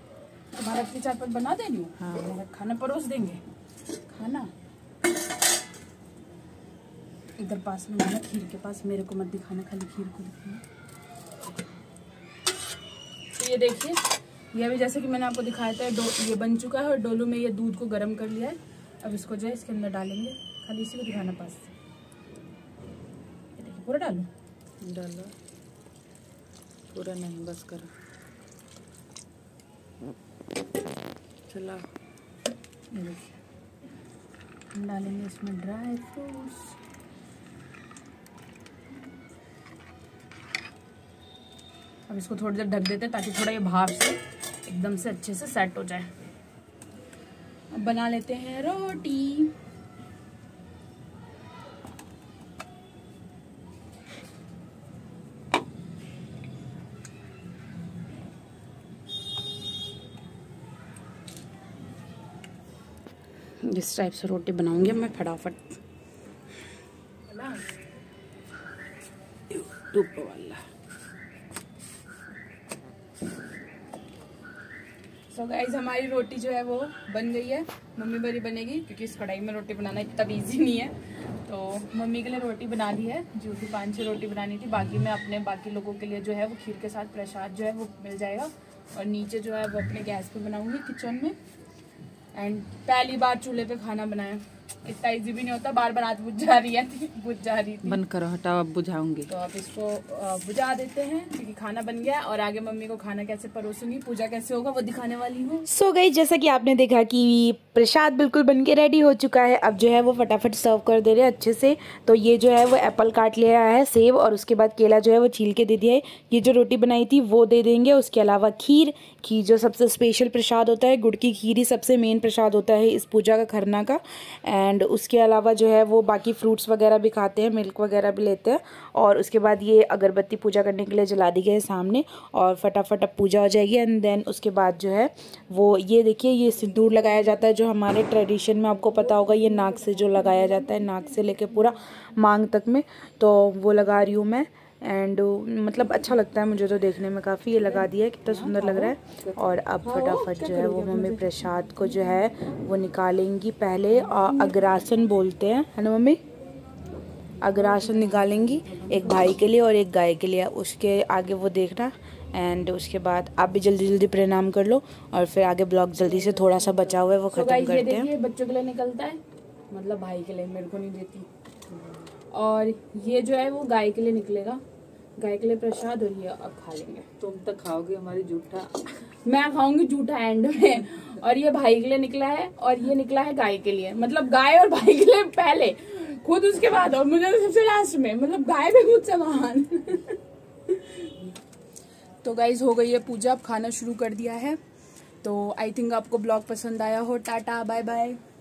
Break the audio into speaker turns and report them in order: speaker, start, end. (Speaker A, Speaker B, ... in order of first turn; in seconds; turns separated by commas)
Speaker A: 0.5-3.4, Speaker A: 4.1-4.5, Speaker A: 7.4-10.6, Speaker A: 13.3-21.7, Speaker A: 23.6-24.3, Speaker B: 24.8-25.3, Speaker B: 26.9-27.9, Speaker B: 31.5-31.9, Speaker A: 32.9-33.4, Speaker A: 34.7-36.8, Speaker A: 42.1-46.1, Speaker A: 47.7-49.5, Speaker A: 63.6-65.8, Speaker A: 67.3-67.7, Speaker B: 69.9-70.5, Speaker A: 75.3-80.9, Speaker A: 81.4-91.3, Speaker A: 92.3-98.0, Speaker B: 97.8-99.3, Speaker A: 99.3-105.7, Speaker C: 105.7-156.2, Speaker A: 138.9-141.2, Speaker B: 148.3-151.2, Speaker C: 157.4-168.1, Speaker A: 158.5-158.9, Speaker A: 166.4-166.8, Speaker A: 167.3-171.3, Speaker B: 171.8-172.0, Speaker A: 172.3-174.6, Speaker A: 175.2-177.1, Speaker B: 177.2-178.9, Speaker A: 179.2-191.1, Speaker A: 192.2-194.6, Speaker A: 195.2-198.2